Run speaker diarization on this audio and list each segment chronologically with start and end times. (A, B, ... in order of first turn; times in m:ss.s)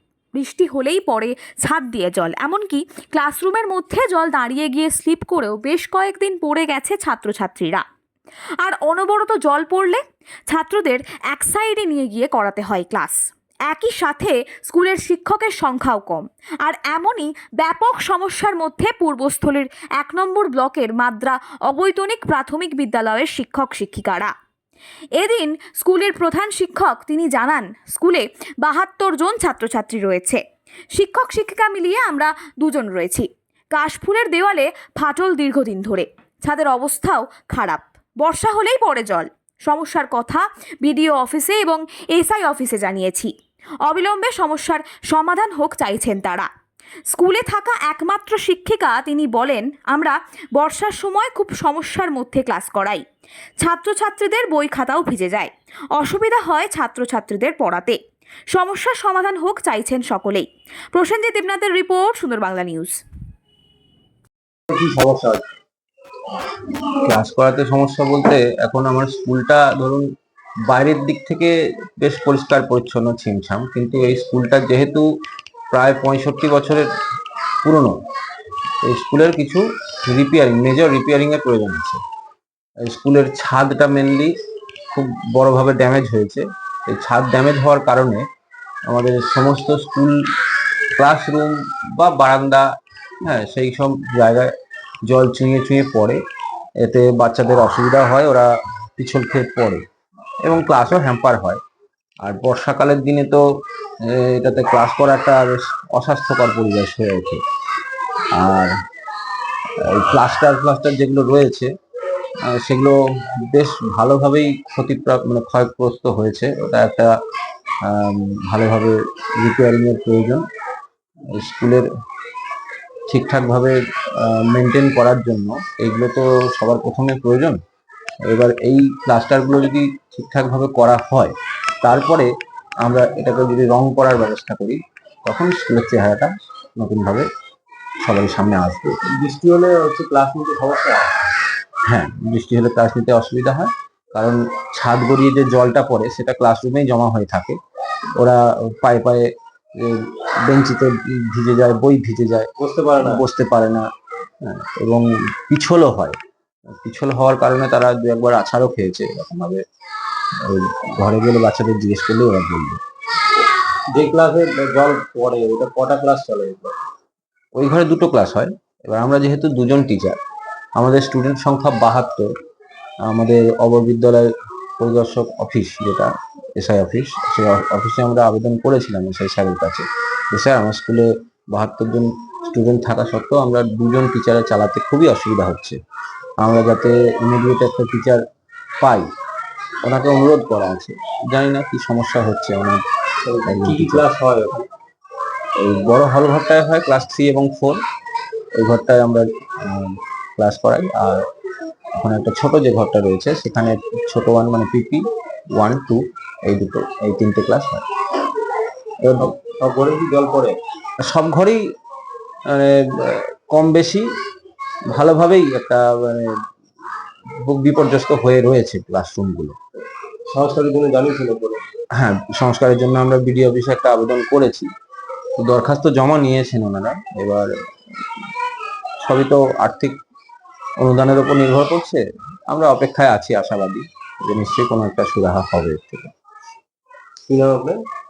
0:00.4-0:07.8 A
0:08.6-0:24.3 A
0:25.2-0:30.4 A
0:30.9-0:43.3 A
0:43.8-0:46.5 A
0:47.1-0:53.0 A
0:53.6-0:58.0 A
0:58.5-1:03.0 A
1:04.7-1:05.3 B
1:07.0-1:10.1 C
1:10.7-1:15.1 C
1:15.7-1:16.9 C
1:17.6-1:18.0 C
1:18.8-1:22.0 C
1:22.8-1:24.3 C
1:24.9-1:28.3 C
1:28.9-1:30.2 C
1:31.0-1:32.7 C
1:33.2-1:34.5 C
1:35.0-1:36.2 C
1:36.8-1:39.8 C
1:40.4-1:41.6 C
1:42.2-1:43.4 C
1:44.0-1:47.4 C
1:48.3-1:48.8 C
1:49.8-1:51.7 C
1:52.4-1:57.2 C
1:57.8-2:00.4 C
2:01.3-2:01.9 C
2:03.1-2:07.6 C
2:08.2-2:17.3 C
2:18.0-2:19.0 C
2:19.2-2:21.1 B
2:21.9-2:27.6 C
2:28.2-2:32.5 C
2:32.6-2:33.2 B
2:33.0-2:33.9 C
2:34.4-2:36.2 C
2:36.8-2:39.6 C
2:40.4-2:42.8 C
2:43.9-2:46.7 B
2:47.6-2:50.2 C
2:50.8-2:52.3 C
2:53.0-3:05.8 C
3:06.4-3:08.2 C
3:08.8-3:09.1 C
3:09.8-3:12.8 C
3:13.2-3:14.6 B
3:13.5-3:14.1 C
3:15.6-3:17.8 C
3:18.6-3:21.2 C
3:22.0-3:27.8 C
3:29.0-3:29.3 C
3:29.5-3:30.6 B
3:31.0-3:31.6 C
3:32.5-3:34.1 C
3:34.9-3:36.4 C
3:37.4-3:39.6 C
3:40.3-3:41.6 B
3:42.0-3:44.7 C
3:45.4-3:47.5 C
3:49.0-3:50.0 C
3:50.8-3:56.1 C
3:57.3-3:57.8 B